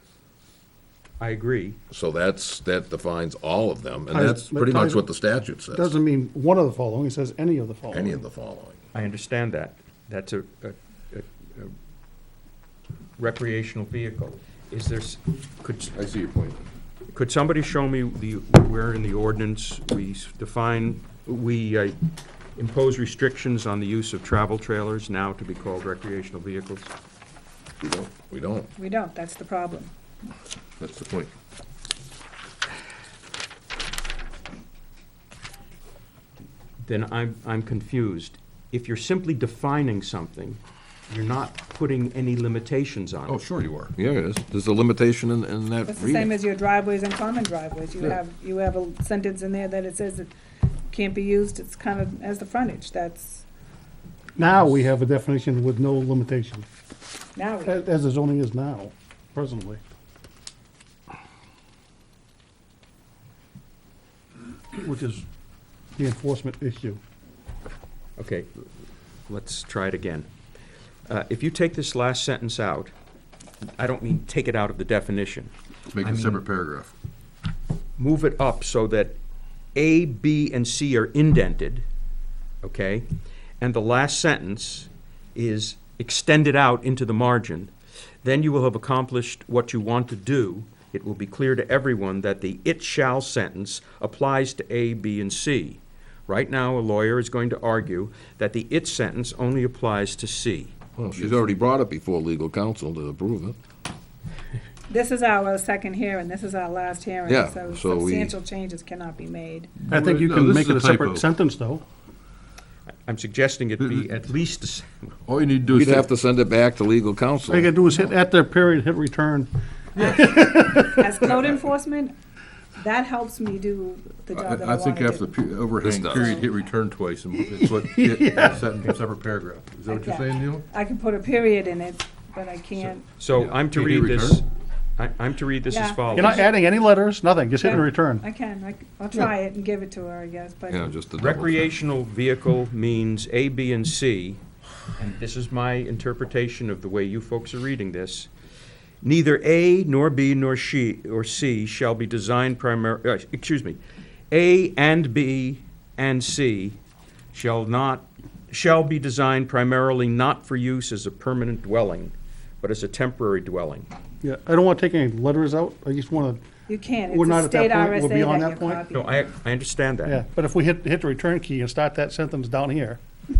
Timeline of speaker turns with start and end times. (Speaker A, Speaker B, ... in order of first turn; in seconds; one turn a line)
Speaker A: 1.2-1.8
Speaker B: 1.9-5.9
Speaker C: 4.1-5.0
Speaker C: 5.7-8.2
Speaker B: 7.9-8.8
Speaker A: 8.9-11.7
Speaker A: 13.2-15.9
Speaker D: 16.0-16.6
Speaker A: 17.1-21.9
Speaker A: 22.6-26.9
Speaker B: 27.8-28.7
Speaker E: 28.8-29.9
Speaker D: 30.8-31.3
Speaker B: 30.8-31.3
Speaker A: 36.8-43.4
Speaker D: 43.3-44.0
Speaker B: 44.0-46.3
Speaker E: 45.9-50.3
Speaker E: 50.9-53.5
Speaker C: 54.4-56.7
Speaker E: 57.4-57.8
Speaker C: 57.6-59.8
Speaker C: 64.7-65.2
Speaker C: 66.0-67.0
Speaker A: 68.2-68.5
Speaker A: 69.3-70.3
Speaker A: 71.1-72.9
Speaker A: 73.8-76.4
Speaker D: 75.9-76.9
Speaker A: 78.0-79.2
Speaker A: 79.8-81.9
Speaker A: 82.6-83.1
Speaker A: 83.6-87.7
Speaker A: 88.2-100.8
Speaker B: 101.0-103.6
Speaker D: 101.2-101.5
Speaker E: 104.9-109.8
Speaker B: 107.3-108.3
Speaker D: 109.8-111.2
Speaker C: 109.9-111.8
Speaker A: 113.1-114.9
Speaker D: 115.3-116.1
Speaker B: 115.7-117.7
Speaker C: 117.5-121.3
Speaker E: 120.8-122.1
Speaker E: 122.8-125.3
Speaker D: 124.3-130.7
Speaker B: 125.8-126.5
Speaker E: 126.1-126.4
Speaker C: 127.4-128.7
Speaker E: 129.9-133.1
Speaker A: 133.2-134.5
Speaker D: 133.3-134.4
Speaker A: 135.0-136.4
Speaker E: 135.7-136.5
Speaker C: 136.1-138.2
Speaker E: 137.6-140.9
Speaker B: 140.7-141.7
Speaker A: 141.2-144.4
Speaker A: 145.0-148.3
Speaker A: 149.0-153.8
Speaker A: 154.3-156.8
Speaker A: 157.3-163.9
Speaker C: 164.2-166.4
Speaker E: 166.7-169.3
Speaker C: 167.1-168.8
Speaker A: 168.9-170.2
Speaker C: 170.1-173.0